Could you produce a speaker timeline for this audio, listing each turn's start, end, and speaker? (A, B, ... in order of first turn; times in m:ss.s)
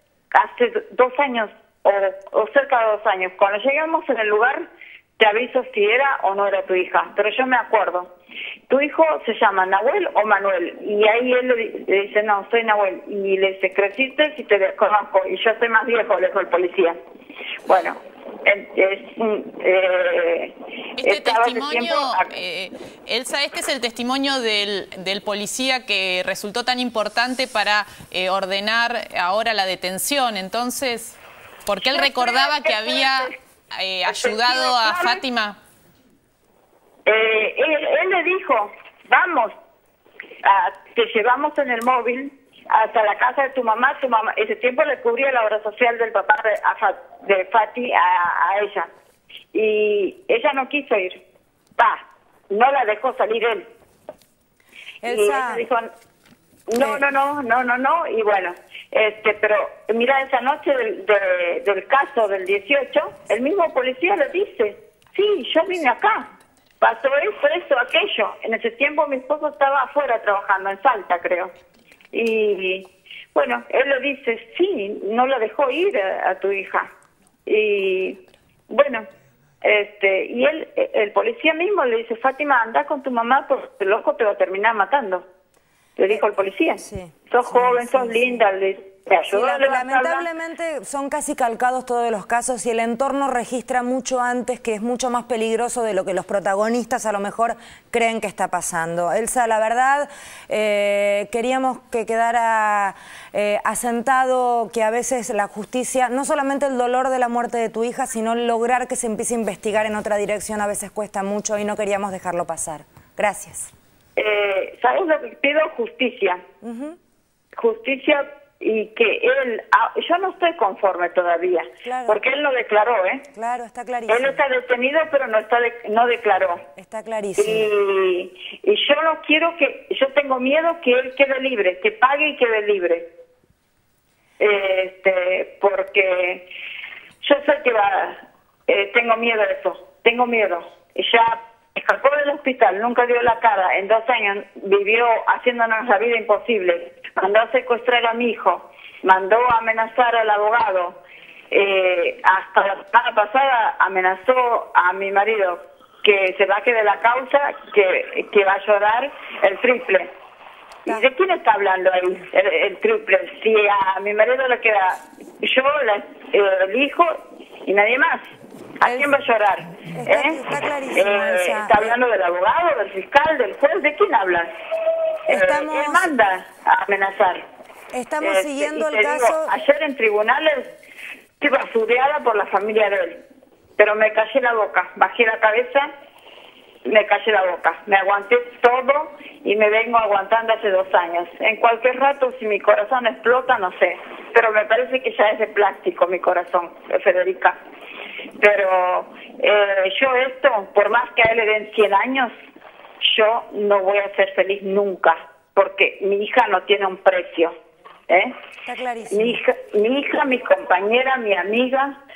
0:00.3-0:08.1 A
0:08.7-0:17.0 A
0:17.6-0:22.3 A
0:21.0-0:35.6 B
0:31.9-0:33.3 A
0:34.0-0:35.2 A
0:37.0-0:39.5 A
0:40.4-0:48.9 A
0:49.5-0:51.2 A
0:51.8-0:53.7 A
0:55.0-0:55.6 C
0:55.0-0:55.9 A
0:56.7-1:11.5 A
1:12.1-1:16.9 A
1:17.4-1:19.1 A
1:19.6-1:25.2 A
1:26.0-1:30.2 A
1:26.8-1:28.4 C
1:29.3-1:53.7 C
1:54.2-1:56.4 A
1:56.6-1:57.0 C
1:57.6-2:03.2 A
2:01.8-2:02.2 C
2:03.3-2:04.4 C
2:04.1-2:06.6 A
2:06.8-2:07.7 C
2:07.4-2:13.1 A
2:14.4-2:16.4 A
2:17.2-2:31.0 A
2:31.5-2:40.1 A
2:40.8-2:47.1 A
2:47.6-2:48.2 A
2:48.8-2:54.5 A
2:50.0-2:51.9 C
2:55.3-2:57.4 A
2:55.3-2:56.1 C
2:57.9-2:59.5 C
2:58.2-3:00.7 A
3:01.4-3:03.2 A
3:03.8-3:05.9 A
3:06.8-3:17.6 A
3:18.4-3:22.3 A
3:23.0-3:27.5 A
3:28.1-3:28.3 A
3:28.6-3:29.4 C
3:29.1-3:32.0 A